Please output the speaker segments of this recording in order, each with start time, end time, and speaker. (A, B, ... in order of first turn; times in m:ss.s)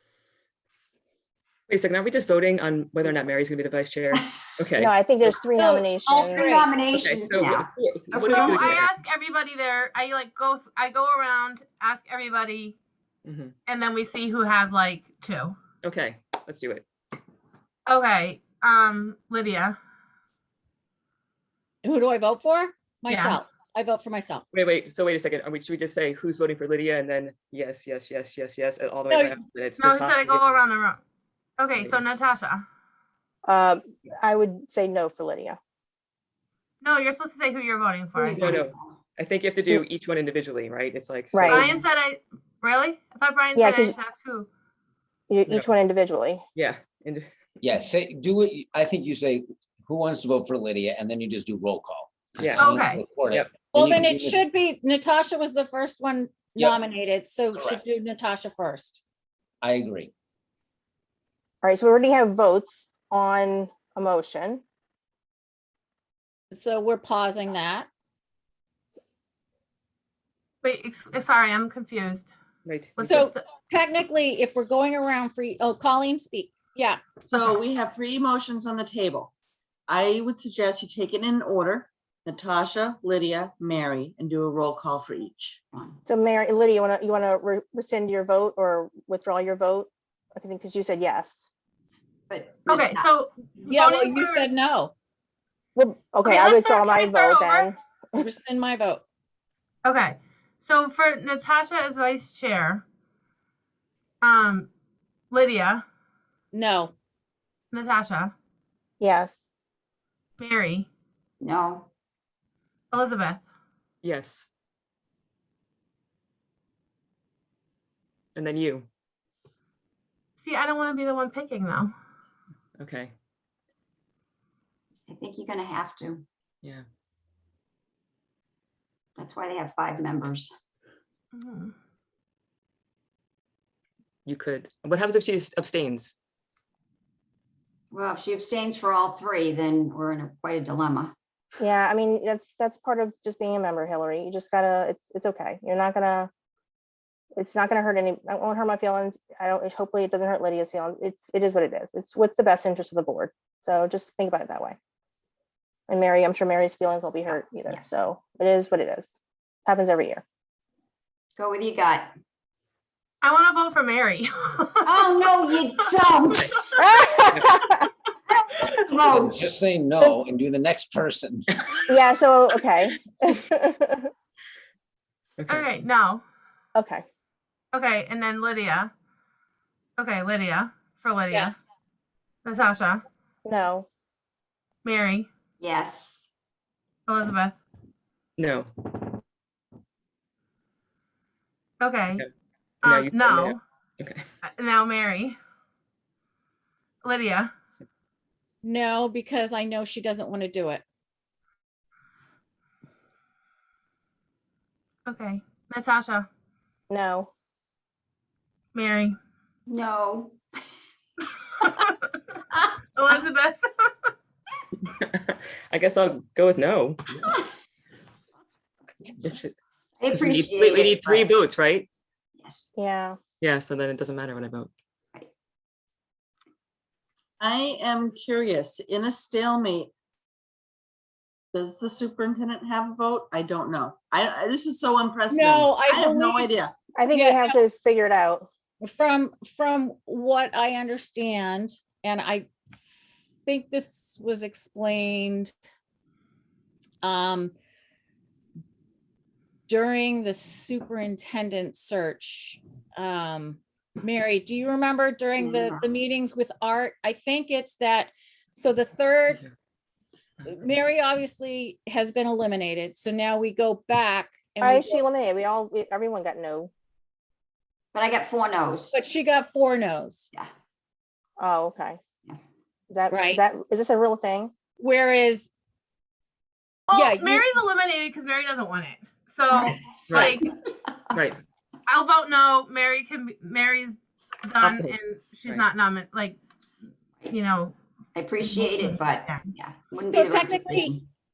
0:01.7-0:05.4 A
0:04.8-0:06.5 B
0:05.5-0:06.7 C
0:06.2-0:08.8 D
0:06.9-0:08.8 A
0:08.2-0:12.8 E
0:13.2-0:13.5 A
0:13.7-0:15.6 E
0:15.8-0:16.8 A
0:17.9-0:19.8 E
0:21.8-0:24.4 C
0:23.1-0:23.4 E
0:24.5-0:30.6 A
0:29.1-0:29.4 C
0:29.8-0:31.0 E
0:31.6-0:32.6 E
0:33.4-0:35.6 B
0:36.8-0:38.5 E
0:38.2-0:39.0 D
0:38.3-0:41.7 A
0:41.3-0:41.6 B
0:41.5-0:44.5 E
0:43.5-0:43.9 B
0:45.3-0:46.4 B
0:46.6-0:47.3 A
0:47.6-0:54.4 F
0:52.4-0:52.7 A
0:52.6-0:53.0 E
0:53.7-0:59.0 C
0:57.5-0:57.8 F
0:59.6-1:00.1 F
1:01.6-1:04.6 B
1:06.5-1:07.9 C
1:10.6-1:12.3 E
1:12.6-1:12.9 A
1:13.0-1:13.4 E
1:13.0-1:17.0 C
1:17.3-1:19.3 G
1:19.9-1:25.6 G
1:25.7-1:26.0 D
1:26.0-1:31.5 B
1:32.3-1:33.1 D
1:32.7-1:34.5 E
1:33.7-1:34.9 C
1:35.8-1:38.2 B
1:36.2-1:37.7 E
1:38.2-1:39.0 C
1:39.8-1:42.8 E
1:44.2-1:44.7 E
1:45.3-1:45.8 E
1:46.5-1:46.9 C
1:47.7-1:48.3 E
1:49.0-1:49.4 B
1:50.4-1:50.9 E
1:51.4-1:51.9 D
1:52.9-1:53.4 E
1:54.0-1:54.5 A
1:58.3-1:58.9 A
2:00.4-2:01.9 E
2:02.8-2:03.1 A
2:05.0-2:06.2 D
2:09.2-2:10.5 D
2:11.3-2:11.7 E
2:14.2-2:16.2 A
2:17.9-2:21.1 D
2:21.6-2:26.3 B
2:27.4-2:34.8 B
2:35.9-2:40.2 B
2:37.3-2:37.8 D
2:41.4-2:42.1 D
2:43.2-2:45.1 E
2:44.8-2:46.5 D
2:46.8-2:47.7 B
2:48.3-2:49.5 D
2:49.1-2:51.5 F
2:51.9-2:54.1 B
2:55.4-2:55.7 A
2:55.5-2:56.2 E
2:56.7-2:57.0 B
2:57.7-2:58.9 E
3:00.0-3:01.6 E
3:02.4-3:03.0 E
3:03.4-3:03.9 B
3:04.8-3:05.3 E
3:05.6-3:06.3 D
3:07.1-3:07.6 E
3:08.4-3:08.7 A
3:11.8-3:12.2 E
3:12.8-3:13.6 E
3:12.8-3:14.2 A
3:14.4-3:15.4 E
3:17.0-3:17.5 E
3:18.6-3:20.8 C
3:25.0-3:26.3 E
3:26.9-3:27.3 B
3:28.7-3:29.2 E
3:29.7-3:30.6 D
3:33.0-3:33.9 E
3:34.8-3:37.4 A
3:39.2-3:39.5 A
3:40.0-3:41.3 D
3:40.1-3:41.9 A
3:42.4-3:42.7 D
3:42.8-3:43.2 B
3:43.4-3:44.7 A
3:47.4-3:49.9 G
3:51.5-3:56.7 G
3:55.3-3:56.5 C
3:57.0-3:58.5 B
3:57.1-3:57.6 C
3:58.8-4:02.5 C
4:03.4-4:05.5 C
4:07.0-4:07.5 C
4:09.7-4:19.4 C
4:15.4-4:15.9 D
4:20.4-4:25.0 C
4:24.6-4:26.7 B
4:27.9-4:29.0 D
4:28.9-4:30.3 C
4:31.4-4:32.0 B
4:32.9-4:34.5 B
4:33.1-4:33.4 C
4:34.8-4:35.5 C
4:36.9-4:40.4 E
4:36.9-4:37.5 C
4:40.1-4:40.4 A
4:41.9-4:46.4 E
4:44.6-4:44.9 A
4:47.3-4:47.8 E
4:48.1-4:51.1 D
4:48.4-4:49.4 E
4:50.0-4:50.9 C